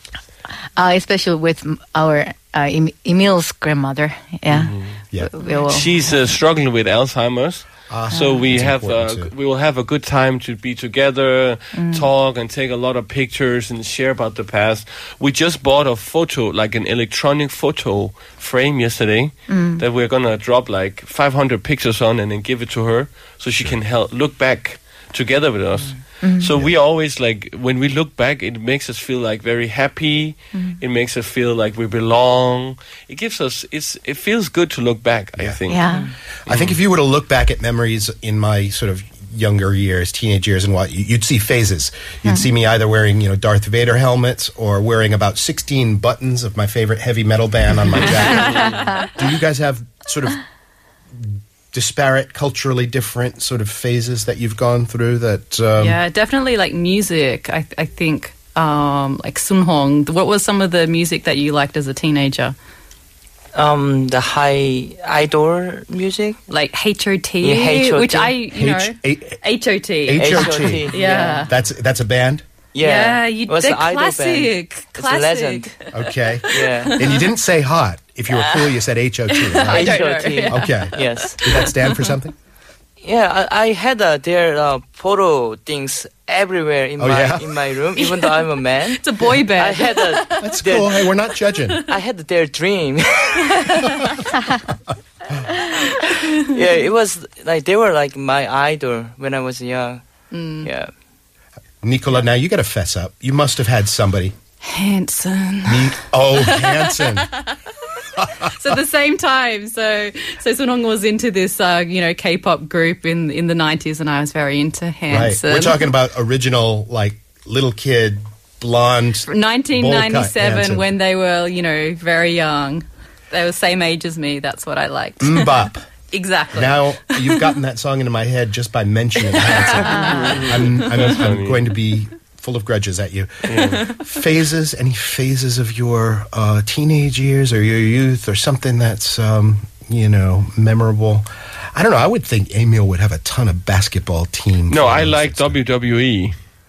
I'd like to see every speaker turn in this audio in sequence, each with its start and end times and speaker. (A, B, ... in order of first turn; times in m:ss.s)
0:00.8-0:06.0 A
0:04.5-0:05.0 B
0:05.6-0:35.9 B
0:07.9-0:09.3 C
0:08.1-0:08.5 A
0:11.8-0:12.1 A
0:19.5-0:19.8 A
0:26.2-0:26.5 A
0:35.7-0:36.1 A
0:36.5-0:50.4 C
0:36.5-0:36.8 B
0:51.2-0:56.0 C
0:55.8-1:02.6 D
1:03.6-1:06.4 E
1:06.5-1:11.5 D
1:07.4-1:08.4 E
1:08.5-1:09.4 C
1:10.1-1:12.4 C
1:10.2-1:11.5 E
1:12.7-1:15.7 E
1:12.8-1:17.3 D
1:15.9-1:22.3 C
1:16.5-1:17.0 E
1:18.3-1:18.7 E
1:19.3-1:22.1 D
1:19.6-1:21.6 E
1:23.0-1:31.0 E
1:27.0-1:27.6 C
1:28.0-1:30.5 D
1:30.4-1:31.8 C
1:31.6-1:32.0 D
1:31.9-1:33.8 E
1:33.6-1:34.2 D
1:36.2-1:40.0 E
1:40.3-1:40.7 D
1:40.6-1:40.9 E
1:41.8-1:44.4 C
1:44.6-1:47.6 D
1:45.7-1:47.3 C
1:48.5-1:55.8 D
1:55.1-2:00.9 C
1:59.3-2:07.5 D
2:05.2-2:05.9 C
2:06.5-2:25.6 C
2:09.3-2:10.2 D
2:10.1-2:11.6 B
2:13.5-2:13.8 B
2:13.7-2:14.0 D
2:24.7-2:26.3 B